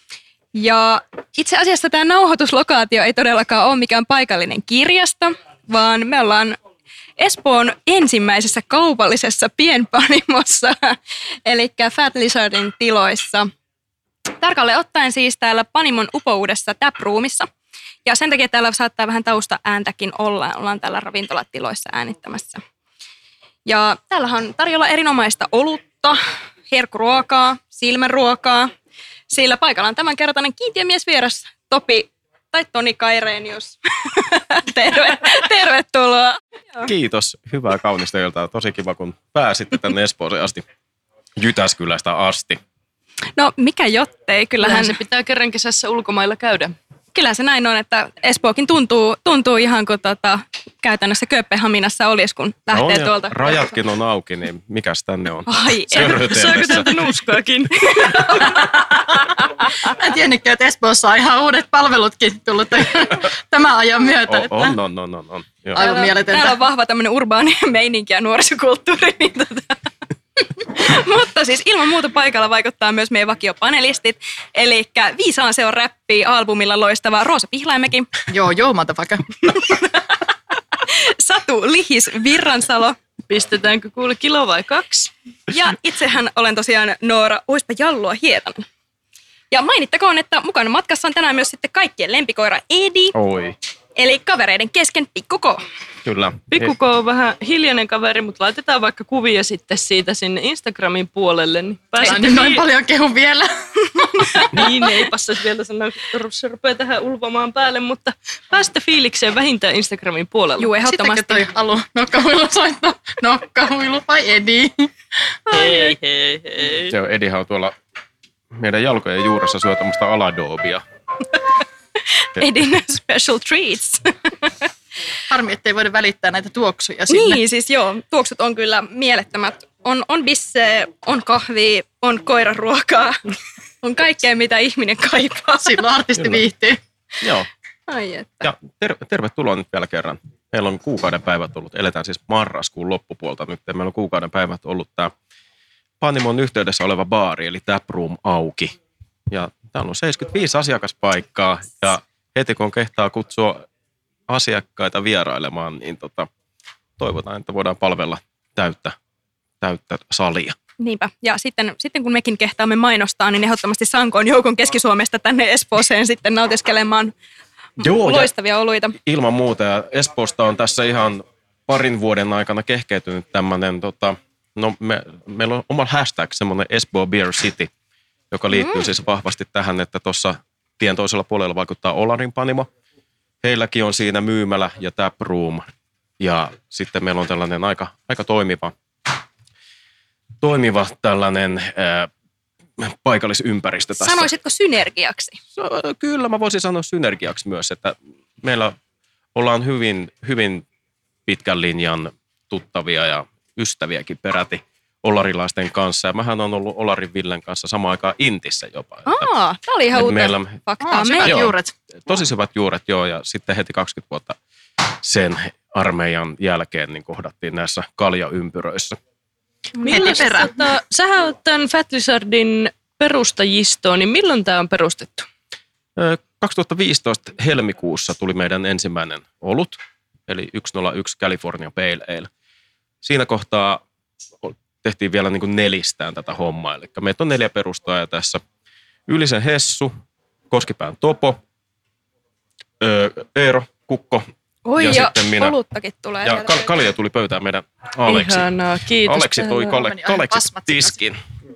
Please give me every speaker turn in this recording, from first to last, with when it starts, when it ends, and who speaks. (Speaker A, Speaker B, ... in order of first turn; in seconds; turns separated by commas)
Speaker A: 0.6-6.6, Speaker A: 7.2-13.5, Speaker A: 14.4-17.5, Speaker A: 18.1-22.6, Speaker A: 23.7-28.7, Speaker A: 29.3-36.9, Speaker B: 36.8-40.7, Speaker B: 41.4-42.6, Speaker A: 43.4-45.0, Speaker C: 44.6-46.8, Speaker A: 47.1-53.7, Speaker B: 52.7-56.9, Speaker A: 55.5-57.0, Speaker C: 55.9-58.6, Speaker A: 57.9-59.9, Speaker D: 59.9-64.8, Speaker B: 64.3-65.8, Speaker D: 65.7-66.6, Speaker A: 65.8-78.1, Speaker D: 78.3-79.4, Speaker A: 79.5-83.0, Speaker C: 83.3-85.1, Speaker A: 85.5-88.7, Speaker A: 89.5-93.2, Speaker B: 93.1-93.6, Speaker A: 94.0-95.6, Speaker B: 96.0-96.7, Speaker C: 96.5-102.6, Speaker D: 102.0-104.5, Speaker A: 104.0-104.8, Speaker C: 104.3-110.7, Speaker A: 110.6-111.4, Speaker D: 110.8-114.9, Speaker A: 115.5-116.0, Speaker C: 115.5-116.9, Speaker B: 116.9-117.8, Speaker B: 118.5-120.8, Speaker A: 122.2-124.7, Speaker D: 125.3-127.4, Speaker A: 127.1-133.2, Speaker A: 133.8-135.8, Speaker D: 135.6-136.8, Speaker B: 136.2-136.4, Speaker B: 137.2-137.5, Speaker A: 137.9-138.5, Speaker B: 138.4-145.1, Speaker B: 146.0-148.8, Speaker B: 149.3-153.7, Speaker B: 154.3-156.3, Speaker B: 157.0-159.0, Speaker B: 159.6-160.6, Speaker A: 160.8-167.1, Speaker A: 167.8-169.0, Speaker B: 167.8-168.3, Speaker B: 169.0-177.7, Speaker B: 178.3-182.7, Speaker A: 178.5-178.8, Speaker B: 183.4-185.7, Speaker B: 186.2-188.7, Speaker B: 190.4-192.1, Speaker B: 192.8-194.3, Speaker A: 194.0-195.4, Speaker B: 195.6-198.8, Speaker B: 199.3-200.7, Speaker B: 201.3-209.3, Speaker A: 209.1-211.4, Speaker B: 209.9-210.6, Speaker D: 210.8-211.7, Speaker B: 211.2-214.4, Speaker B: 215.0-219.0, Speaker A: 219.8-220.5, Speaker C: 219.8-225.3, Speaker D: 219.9-220.5, Speaker B: 226.0-232.3, Speaker B: 233.0-233.8, Speaker B: 234.4-238.4, Speaker B: 239.1-239.9, Speaker B: 240.5-241.4, Speaker B: 242.8-245.6, Speaker A: 244.7-246.7, Speaker B: 246.2-248.5, Speaker C: 248.1-249.8, Speaker B: 249.0-251.2, Speaker D: 249.7-251.0